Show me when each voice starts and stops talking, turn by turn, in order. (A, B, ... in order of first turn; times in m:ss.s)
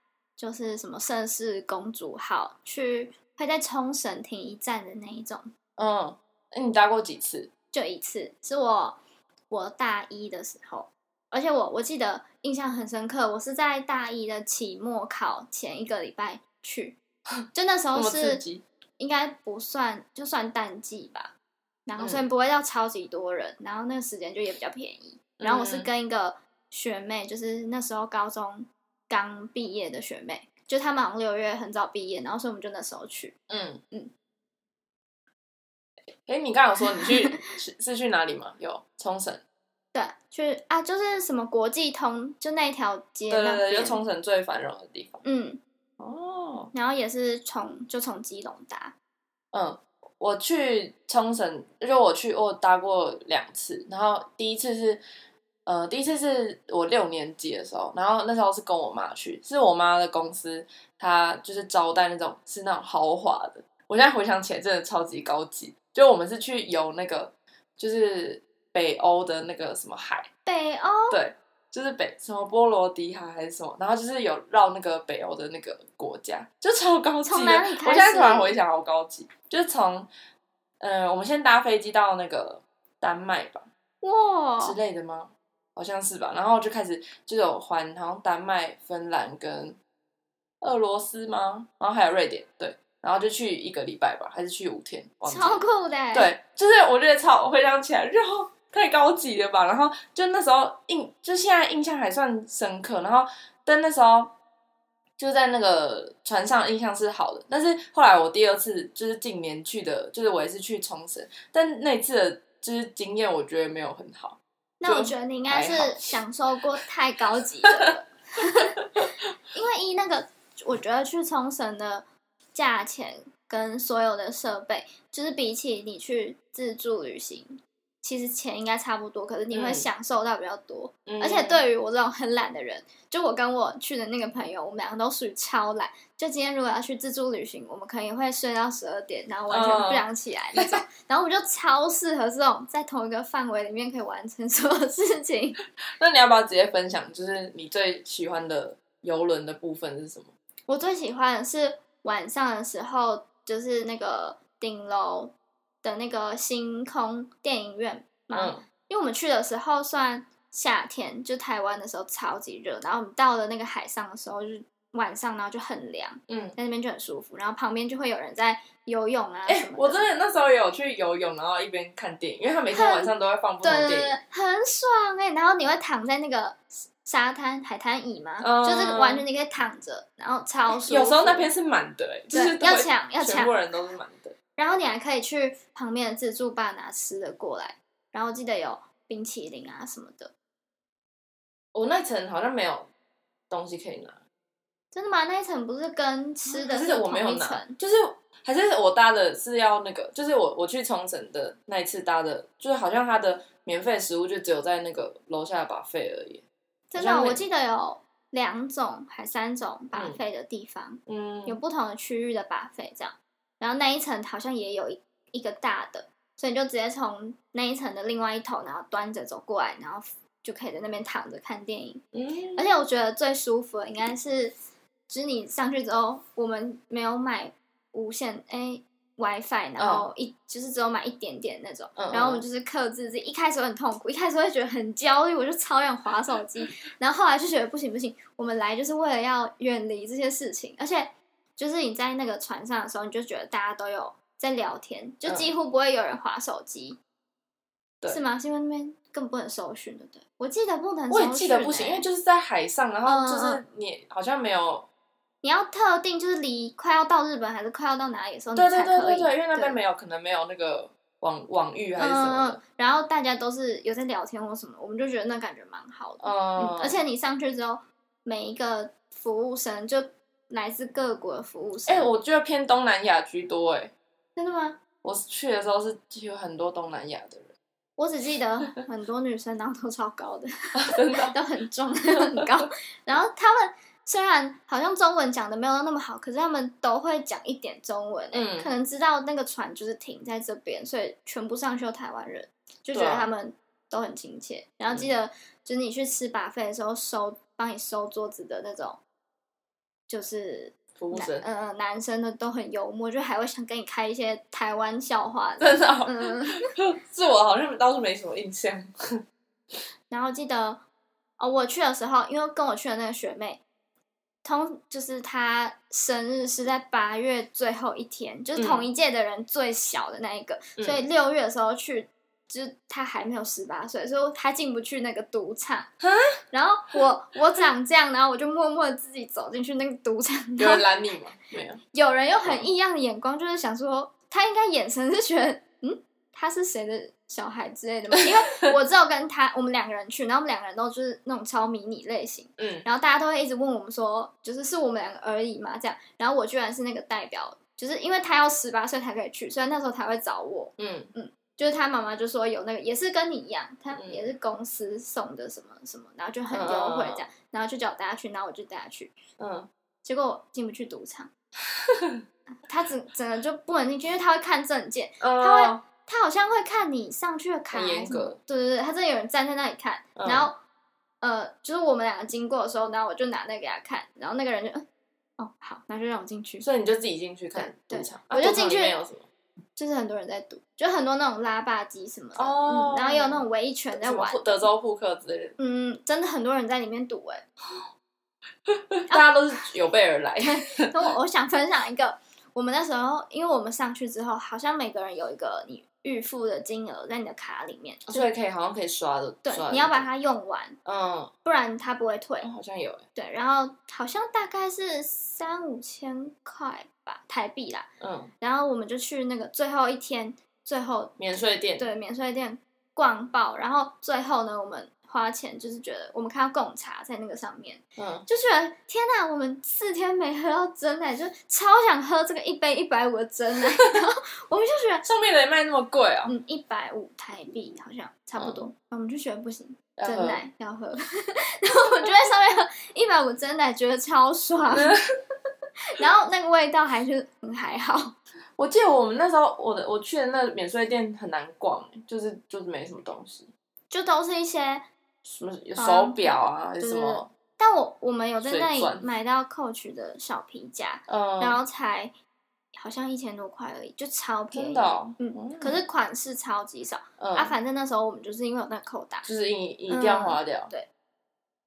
0:00.4-0:05.5 A
0:05.8-0:07.5 B
0:07.7-0:17.0 A
0:17.5-0:18.4 A
0:17.9-0:18.6 B
0:19.0-0:21.3 A
0:21.9-0:33.3 A
0:22.0-0:22.2 B
0:25.4-0:25.9 B
0:33.5-0:33.8 B
0:36.2-0:39.4 B
0:37.0-0:37.4 A
0:39.9-0:44.0 A
0:43.3-0:45.2 B
0:45.2-0:45.6 A
0:46.0-0:46.7 B
0:46.7-0:48.9 A
0:49.5-0:55.0 B
0:55.6-1:10.3 B
1:10.4-1:11.2 A
1:11.1-1:20.1 B
1:17.2-1:18.6 A
1:20.8-1:23.7 B
1:24.0-1:24.8 A
1:24.6-1:29.8 B
1:30.6-1:44.3 B
1:35.2-1:36.3 A
1:45.2-1:56.2 B
1:54.8-2:25.6 A
2:09.5-2:09.9 B
2:11.0-2:11.6 B
2:19.5-2:20.8 B
2:26.0-2:30.3 B
2:30.7-2:50.1 A
2:38.3-2:38.6 B
2:46.3-2:46.6 B
2:49.4-2:54.2 B
2:52.7-3:01.5 A
2:58.4-2:59.2 B
3:00.9-3:04.3 B
3:02.3-3:03.6 A
3:04.6-3:10.3 A
3:11.7-3:12.9 B
3:13.5-3:14.2 B
3:14.9-3:17.8 A
3:16.5-3:26.4 B
3:26.9-3:42.0 A
3:27.0-3:27.4 B
3:29.9-3:30.2 B
3:31.1-3:31.6 B
3:42.1-3:42.6 B
3:42.5-3:44.5 A
3:45.1-4:07.0 A
3:49.8-3:50.1 B
3:52.0-3:52.4 B
4:08.1-4:12.0 A
4:11.1-4:14.9 B
4:13.0-4:13.6 A
4:15.4-4:19.8 A
4:18.5-4:22.6 B
4:22.0-4:32.1 A
4:26.2-4:27.0 B
4:31.9-4:33.9 B
4:34.4-4:34.8 A
4:35.0-4:37.5 B
4:38.0-4:59.0 A
4:40.8-4:41.3 B
4:48.3-4:48.7 B
4:52.9-4:53.3 B
5:00.1-5:06.6 A
5:01.0-5:01.4 B
5:05.6-5:08.9 B
5:10.1-5:10.8 A
5:11.4-5:13.6 A
5:14.4-5:25.9 A
5:18.6-5:18.9 B
5:26.0-5:26.3 B
5:26.5-5:30.9 A
5:30.6-5:31.8 B
5:31.9-5:59.1 A
5:32.4-5:32.7 B
5:42.6-5:42.8 B
5:50.8-5:51.1 B
5:53.9-5:54.3 B
5:56.5-5:57.3 B
5:59.4-5:59.7 B
6:00.0-6:01.3 A
6:01.8-6:02.2 B
6:02.6-6:10.6 A
6:05.2-6:05.8 B
6:07.7-6:08.4 B
6:10.2-6:10.5 B
6:11.2-6:14.8 A
6:15.4-6:16.6 A
6:16.6-6:19.3 B
6:17.5-6:19.0 A
6:19.8-6:24.7 A
6:22.4-6:25.6 B
6:25.6-6:27.4 A
6:28.7-6:30.9 B
6:30.4-6:38.3 A
6:38.1-6:40.1 B
6:39.4-6:40.8 A
6:40.8-6:41.3 B
6:41.4-6:42.5 A
6:42.4-6:43.0 B
6:43.1-6:47.9 A
6:48.0-6:48.3 B
6:48.4-6:51.2 A
6:51.2-6:51.9 B
6:51.8-7:05.0 A
6:58.0-6:58.3 B
7:05.0-7:06.3 B
7:06.2-7:15.0 A
7:08.4-7:08.7 B
7:10.0-7:10.4 B
7:14.7-7:15.0 B
7:15.9-7:18.1 A
7:18.6-7:23.5 B
7:23.9-7:24.9 A
7:25.2-7:27.3 B
7:25.8-7:32.1 A
7:28.4-7:29.0 B
7:31.1-7:31.6 B
7:32.7-7:39.3 A
7:34.5-7:35.8 B
7:37.2-7:37.5 B
7:39.2-7:40.7 B
7:39.9-7:40.9 A